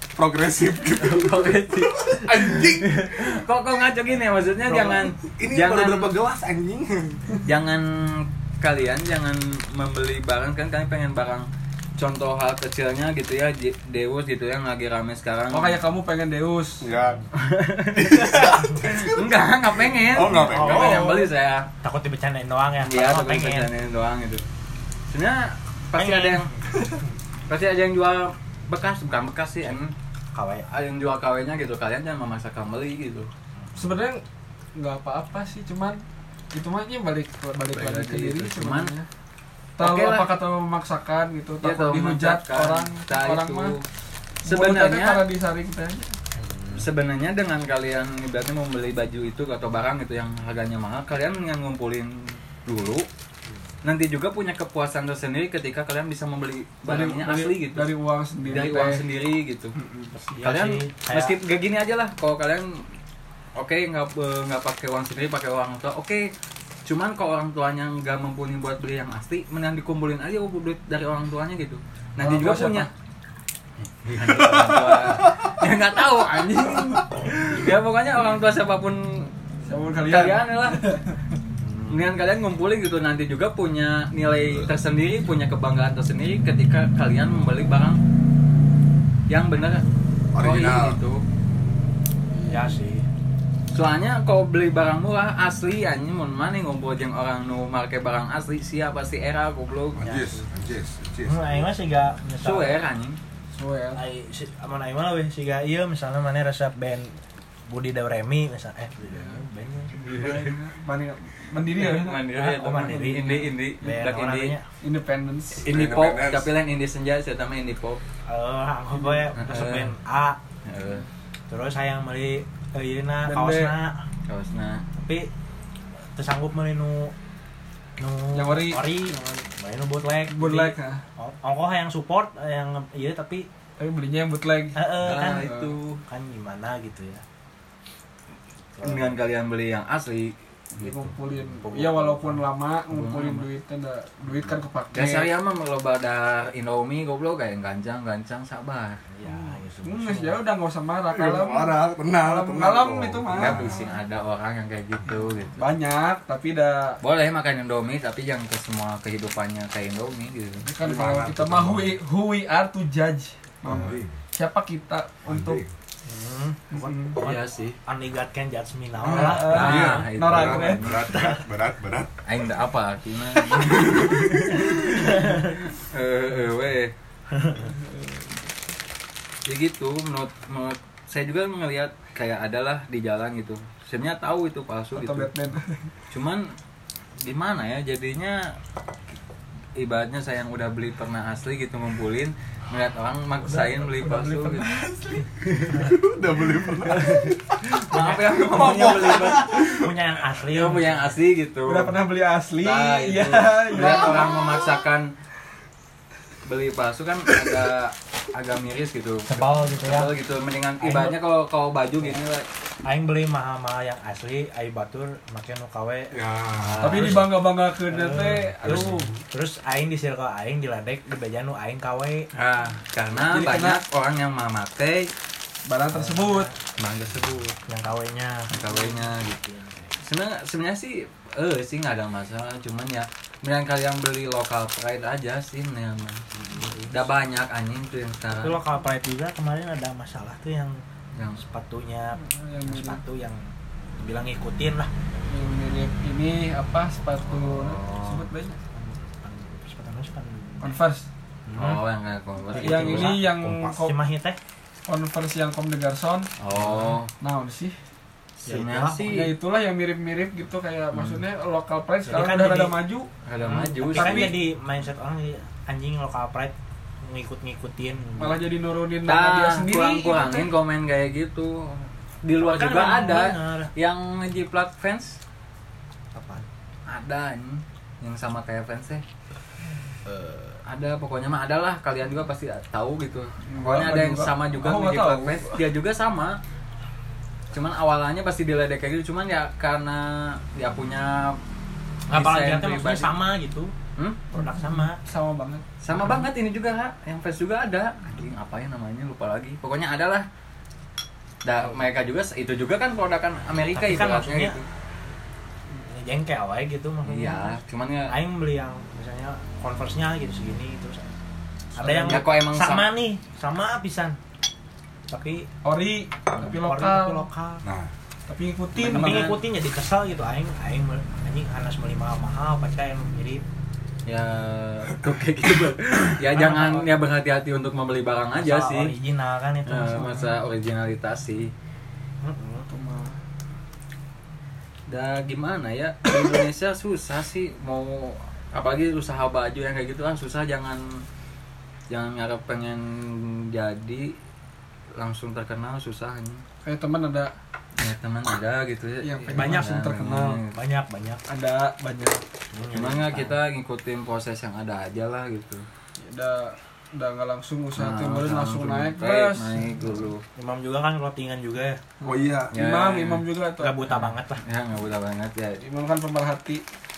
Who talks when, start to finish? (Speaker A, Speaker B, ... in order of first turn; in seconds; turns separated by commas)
Speaker A: 0.1-3.4, Speaker B: 1.0-6.1, Speaker C: 4.7-5.0, Speaker A: 4.8-7.2, Speaker B: 7.5-15.8, Speaker D: 15.5-16.8, Speaker A: 16.8-17.2, Speaker B: 17.3-21.7, Speaker A: 17.9-21.1, Speaker C: 20.4-21.3, Speaker C: 21.8-23.7, Speaker B: 22.8-24.4, Speaker B: 25.1-26.5, Speaker C: 25.9-27.1, Speaker B: 27.5-29.9, Speaker C: 30.3-30.7, Speaker B: 30.7-33.3, Speaker D: 33.8-34.2, Speaker D: 34.8-36.0, Speaker D: 36.5-39.0, Speaker B: 37.7-38.9, Speaker D: 39.8-43.7, Speaker B: 39.8-40.3, Speaker B: 41.6-43.8, Speaker D: 44.4-46.1, Speaker B: 44.5-45.2, Speaker C: 46.3-46.9, Speaker B: 46.7-53.0, Speaker B: 53.8-57.9, Speaker D: 56.8-59.0, Speaker B: 58.5-59.7, Speaker D: 59.8-60.1, Speaker C: 60.1-61.3, Speaker B: 60.4-62.8, Speaker B: 63.5-66.3, Speaker B: 66.8-72.9, Speaker D: 72.2-72.9, Speaker B: 74.0-79.3, Speaker A: 74.2-75.5, Speaker A: 76.4-77.2, Speaker D: 79.7-81.2, Speaker B: 80.1-80.8, Speaker B: 81.9-88.0, Speaker B: 89.3-89.8, Speaker A: 90.3-91.0, Speaker B: 90.4-91.2, Speaker D: 92.3-92.8, Speaker C: 92.4-93.0, Speaker B: 93.7-100.0, Speaker C: 100.0-100.4, Speaker A: 100.0-101.7, Speaker C: 101.2-102.8, Speaker B: 102.4-103.2, Speaker D: 103.5-104.0, Speaker C: 103.9-110.4, Speaker D: 109.1-109.4, Speaker B: 110.0-110.5, Speaker D: 110.0-112.2, Speaker B: 111.7-114.5, Speaker C: 112.3-114.7, Speaker D: 114.8-115.6, Speaker A: 115.6-116.5, Speaker B: 115.6-118.0, Speaker C: 118.3-120.4, Speaker D: 119.0-119.2, Speaker B: 119.3-119.9, Speaker B: 120.6-121.0, Speaker C: 121.5-124.0, Speaker D: 123.2-123.7, Speaker B: 124.3-124.8, Speaker C: 124.9-125.3, Speaker C: 126.1-127.1, Speaker C: 128.0-133.5, Speaker D: 128.3-129.4, Speaker D: 130.3-131.0, Speaker D: 133.8-135.7, Speaker C: 134.8-137.2, Speaker B: 135.0-136.0, Speaker C: 138.8-139.1, Speaker B: 138.8-141.1, Speaker D: 140.8-145.3, Speaker B: 142.9-143.4, Speaker B: 144.9-149.0, Speaker C: 149.1-150.3, Speaker D: 149.3-153.6, Speaker A: 151.1-154.0, Speaker B: 153.3-155.7, Speaker D: 155.2-157.0, Speaker B: 157.0-160.7, Speaker D: 160.6-165.6, Speaker A: 160.8-162.0, Speaker A: 163.6-164.2, Speaker A: 165.2-165.7, Speaker C: 166.0-170.1, Speaker D: 166.7-167.2, Speaker B: 167.2-167.8, Speaker D: 169.0-170.8, Speaker B: 169.1-171.2, Speaker A: 169.5-172.1, Speaker C: 171.1-171.4, Speaker B: 172.2-176.9, Speaker A: 173.5-174.8, Speaker C: 174.9-175.4, Speaker C: 177.3-177.7, Speaker D: 177.6-178.4, Speaker B: 179.5-185.3, Speaker D: 184.9-185.9, Speaker B: 186.1-186.5, Speaker B: 187.2-188.5, Speaker B: 189.8-194.7, Speaker D: 193.4-195.2, Speaker B: 195.4-195.9, Speaker A: 195.7-197.8, Speaker B: 196.8-199.5, Speaker C: 197.9-198.6, Speaker D: 198.2-199.5, Speaker A: 198.4-199.9, Speaker C: 199.7-201.2, Speaker B: 200.5-201.9, Speaker D: 201.6-204.4, Speaker B: 202.6-205.1, Speaker B: 206.4-212.4, Speaker C: 209.3-210.1, Speaker C: 210.8-211.2, Speaker C: 212.8-216.2, Speaker A: 216.1-217.2, Speaker B: 216.6-217.2, Speaker D: 216.8-219.1, Speaker C: 217.9-222.3, Speaker A: 218.6-219.1, Speaker B: 222.3-225.1, Speaker D: 223.2-223.8, Speaker D: 225.7-226.5, Speaker C: 225.9-226.5, Speaker B: 226.8-227.6, Speaker C: 227.7-229.9, Speaker B: 228.5-229.4, Speaker B: 230.0-236.2, Speaker C: 236.3-237.1, Speaker B: 236.9-238.6, Speaker C: 238.4-240.8, Speaker B: 241.2-241.4, Speaker C: 241.4-243.4, Speaker D: 242.2-243.0, Speaker C: 244.0-244.9, Speaker D: 245.3-248.6, Speaker B: 247.4-248.2, Speaker C: 248.7-250.7, Speaker D: 250.6-251.1, Speaker C: 251.5-251.8, Speaker B: 251.5-253.2, Speaker C: 252.5-254.4, Speaker D: 252.6-253.9, Speaker A: 253.2-253.7, Speaker D: 254.9-256.3, Speaker B: 256.4-257.1, Speaker C: 256.6-256.9, Speaker D: 257.2-257.8, Speaker B: 258.4-259.3, Speaker C: 258.5-259.1, Speaker D: 259.1-263.1, Speaker B: 260.9-261.2, Speaker C: 262.0-262.7, Speaker B: 263.2-264.3, Speaker C: 263.4-268.4, Speaker D: 263.9-264.4, Speaker D: 268.2-270.5, Speaker B: 269.1-275.2, Speaker C: 272.4-273.7, Speaker C: 276.1-276.4, Speaker B: 276.9-279.0, Speaker C: 280.1-280.5, Speaker B: 280.7-286.4, Speaker D: 283.5-285.6, Speaker B: 287.5-291.4, Speaker B: 292.1-293.1, Speaker C: 292.1-293.7, Speaker D: 294.3-295.6, Speaker C: 294.4-295.0, Speaker B: 295.8-300.2, Speaker B: 301.4-304.6, Speaker C: 303.7-304.6, Speaker C: 305.9-307.6, Speaker B: 307.0-308.1, Speaker C: 308.1-311.1, Speaker C: 311.8-314.2, Speaker D: 311.8-312.2, Speaker B: 312.1-312.9, Speaker C: 315.1-315.5, Speaker D: 315.6-317.3, Speaker C: 316.3-317.6, Speaker A: 317.6-317.9, Speaker D: 318.3-319.4, Speaker B: 318.8-319.4, Speaker C: 318.8-323.4, Speaker B: 324.1-328.9, Speaker C: 326.4-326.8, Speaker D: 326.4-326.6, Speaker C: 328.3-330.3, Speaker B: 329.6-331.5, Speaker C: 332.2-332.7, Speaker D: 332.6-333.2, Speaker B: 334.9-341.0, Speaker B: 341.9-344.1, Speaker B: 344.9-346.4, Speaker D: 346.6-347.3, Speaker B: 347.8-350.5, Speaker D: 349.0-350.4, Speaker C: 349.3-349.7, Speaker C: 350.5-351.2, Speaker D: 351.3-352.2, Speaker C: 352.5-353.4, Speaker B: 352.7-355.6, Speaker D: 356.0-359.5, Speaker B: 357.8-360.2, Speaker C: 360.4-361.8, Speaker D: 362.0-363.8, Speaker A: 362.0-362.5, Speaker B: 362.5-363.2, Speaker C: 363.6-364.4, Speaker B: 363.9-365.6, Speaker D: 365.6-366.6